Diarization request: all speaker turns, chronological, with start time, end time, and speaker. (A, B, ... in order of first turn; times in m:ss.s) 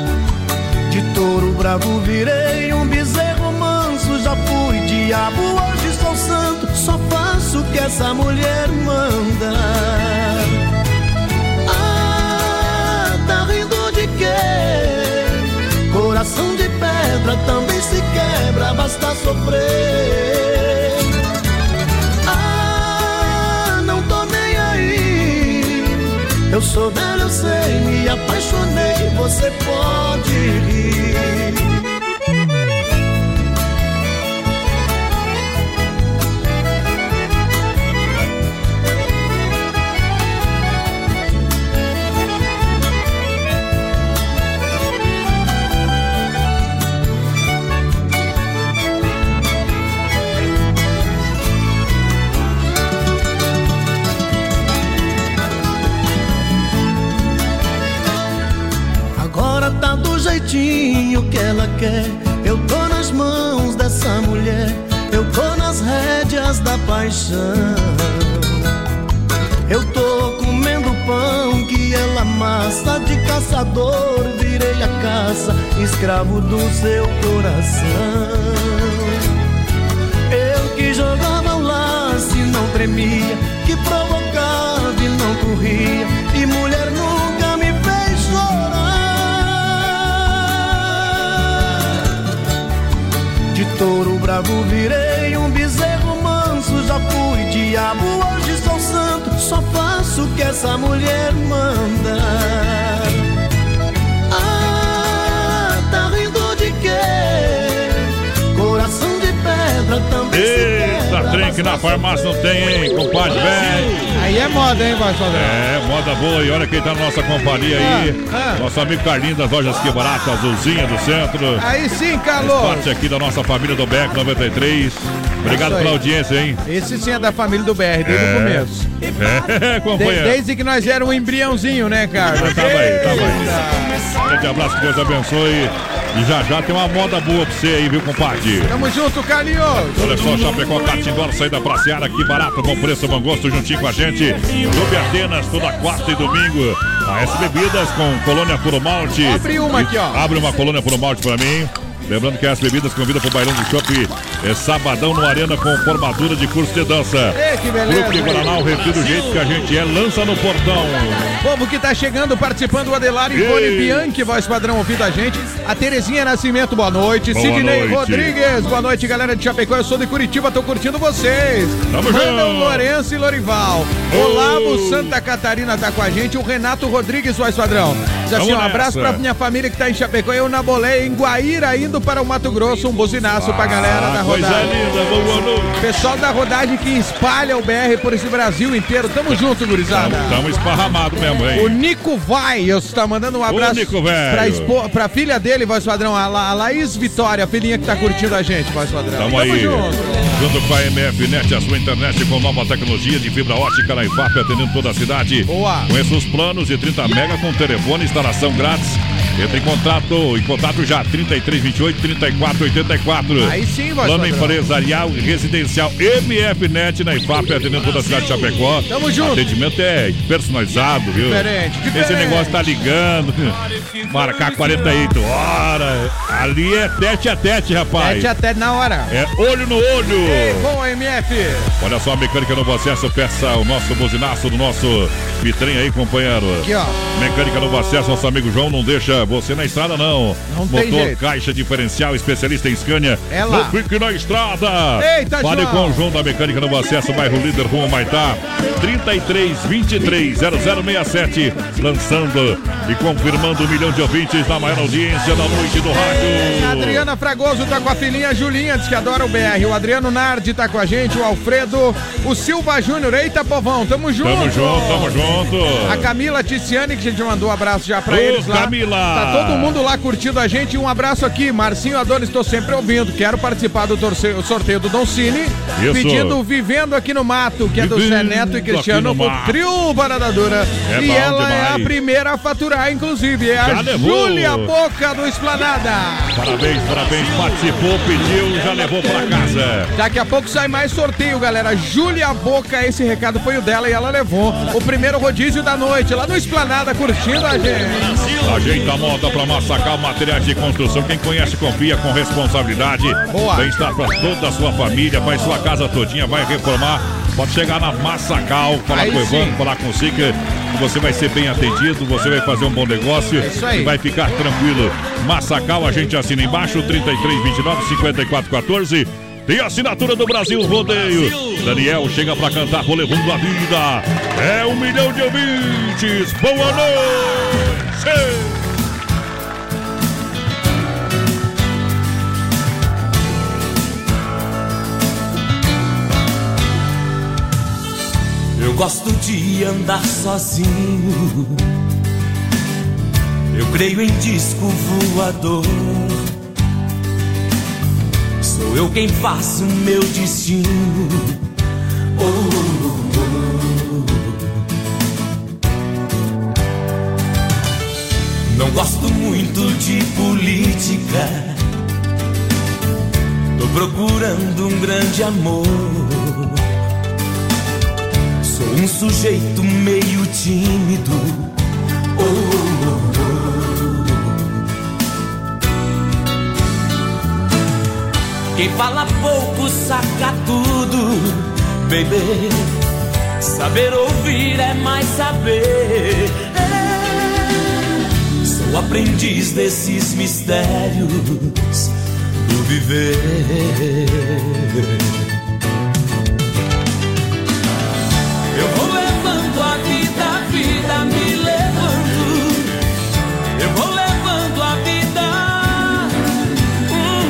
0:00.9-0:10.6 A
0:11.7-0:21.1 A
0:22.2-0:31.9 A
0:59.2-1:08.6 A
1:09.7-1:19.3 A
1:20.3-1:32.0 A
1:33.5-1:43.3 A
1:44.3-1:52.3 A
1:50.3-1:54.0 B
1:54.2-1:55.6 C
1:55.3-2:01.7 B
1:57.8-1:58.6 C
2:01.6-2:02.9 C
2:02.4-2:06.6 B
2:05.4-2:06.0 C
2:06.7-2:08.9 C
2:08.0-2:10.4 B
2:10.0-2:14.0 C
2:12.2-2:18.7 B
2:18.7-2:20.5 C
2:19.9-2:41.4 B
2:29.2-2:30.2 C
2:37.4-2:38.5 C
2:41.4-3:04.7 C
2:43.3-2:44.1 B
2:47.3-2:48.3 B
2:51.9-2:52.9 B
2:54.1-2:55.1 B
2:58.3-2:59.2 B
3:03.4-3:05.8 B
3:05.8-3:10.4 C
3:09.3-3:11.8 B
3:11.6-3:20.4 C
3:13.5-3:14.7 B
3:19.2-3:48.3 B
3:25.5-3:25.9 C
3:33.4-3:34.6 C
3:38.9-3:39.4 C
3:41.2-3:42.6 C
3:48.0-3:49.1 C
3:49.1-3:50.7 B
3:50.2-3:51.7 C
3:51.8-4:17.1 B
3:56.6-3:57.0 C
4:00.5-4:01.2 C
4:03.3-4:03.8 C
4:05.0-4:06.0 C
4:16.0-4:25.2 C
4:24.2-4:26.1 B
4:25.8-4:46.4 C
4:28.1-4:29.8 B
4:35.8-4:36.4 B
4:37.8-4:39.6 B
4:40.8-4:41.9 B
4:43.6-4:44.7 B
4:46.4-4:49.9 B
4:50.0-4:58.3 C
4:58.4-5:28.5 B
5:03.3-5:03.7 C
5:08.9-5:09.6 C
5:13.4-5:13.9 C
5:38.6-5:41.4 D
5:43.5-5:46.2 D
5:48.4-5:51.2 D
5:52.2-5:53.2 D
5:58.5-6:01.5 D
6:03.6-6:06.5 D
6:08.5-6:11.4 D
6:12.2-6:13.6 D
6:18.6-6:22.6 D
6:23.4-6:26.6 D
6:28.5-6:31.6 D
6:32.5-6:34.4 D
6:38.6-6:42.5 D
6:43.6-6:45.7 D